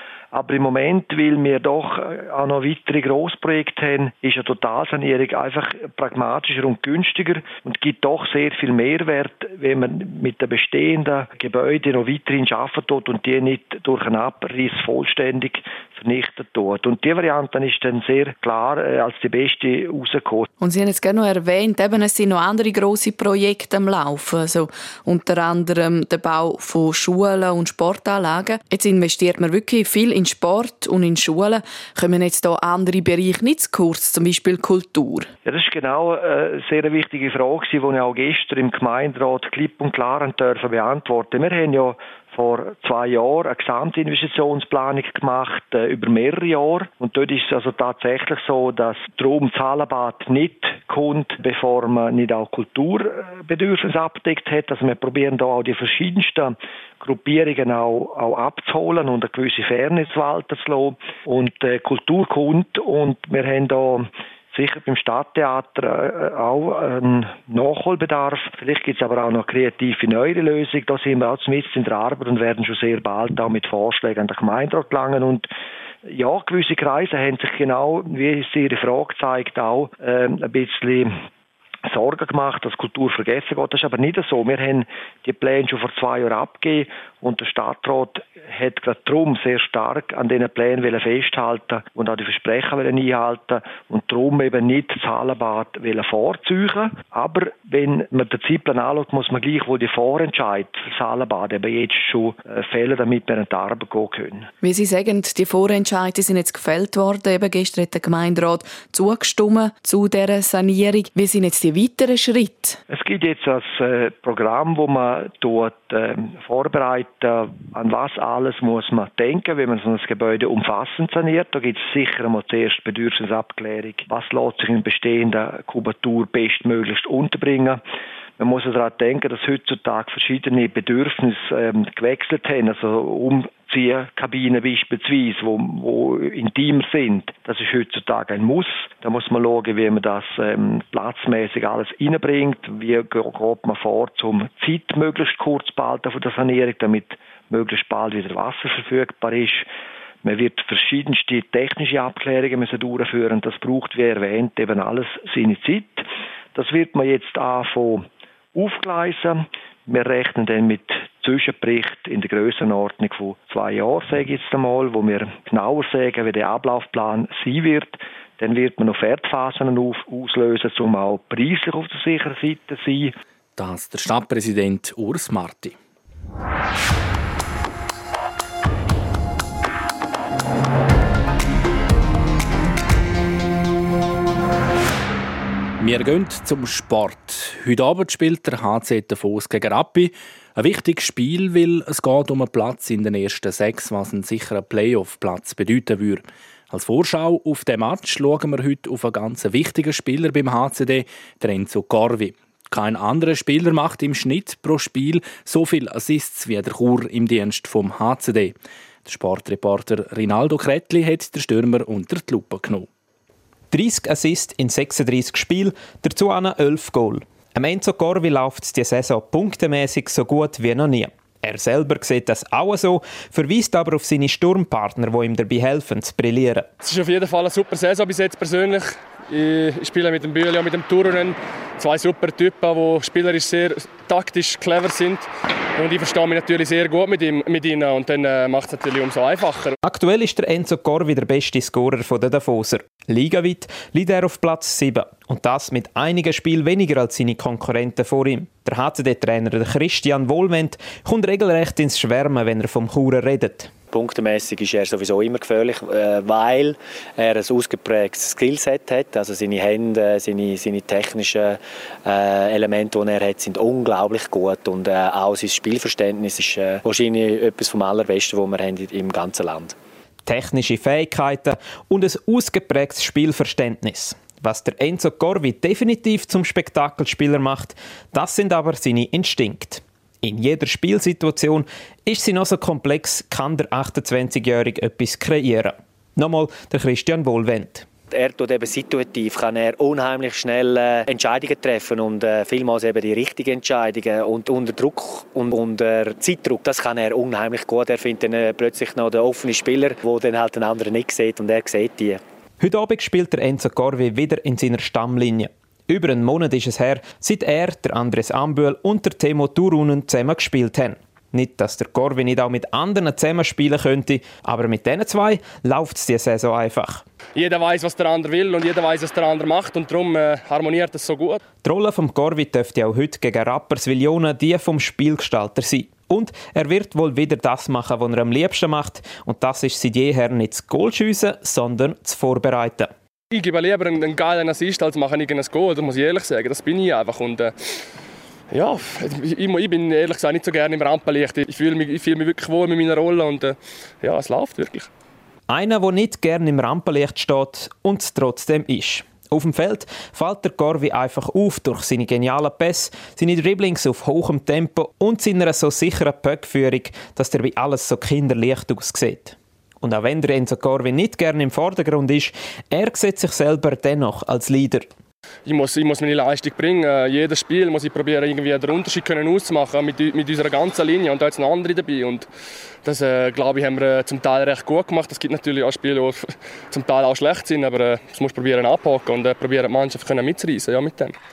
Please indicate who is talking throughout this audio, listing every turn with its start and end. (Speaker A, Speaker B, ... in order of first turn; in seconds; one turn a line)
Speaker A: 0.3-20.5
Speaker B: 20.6-35.3
Speaker A: 35.5-75.5
Speaker A: 76.0-81.1
Speaker A: 81.9-104.5
Speaker B: 104.6-112.8
Speaker A: 112.9-127.8
Speaker A: 128.4-149.7
Speaker A: 150.2-173.1
Speaker C: 173.6-175.8
Speaker C: 185.8-212.9
Speaker D: 213.7-226.7
Speaker E: 226.8-239.8
Speaker D: 239.8-253.7
Speaker F: 253.9-269.7
Speaker D: 270.3-287.9
Speaker F: 288.1-302.2
Speaker D: 302.6-317.0
Speaker E: 317.4-321.4
Speaker D: 321.6-332.9
Speaker E: 333.3-337.5
Speaker E: 338.5-344.9
Speaker D: 345.5-364.9
Speaker E: 365.4-372.3
Speaker E: 372.8-381.1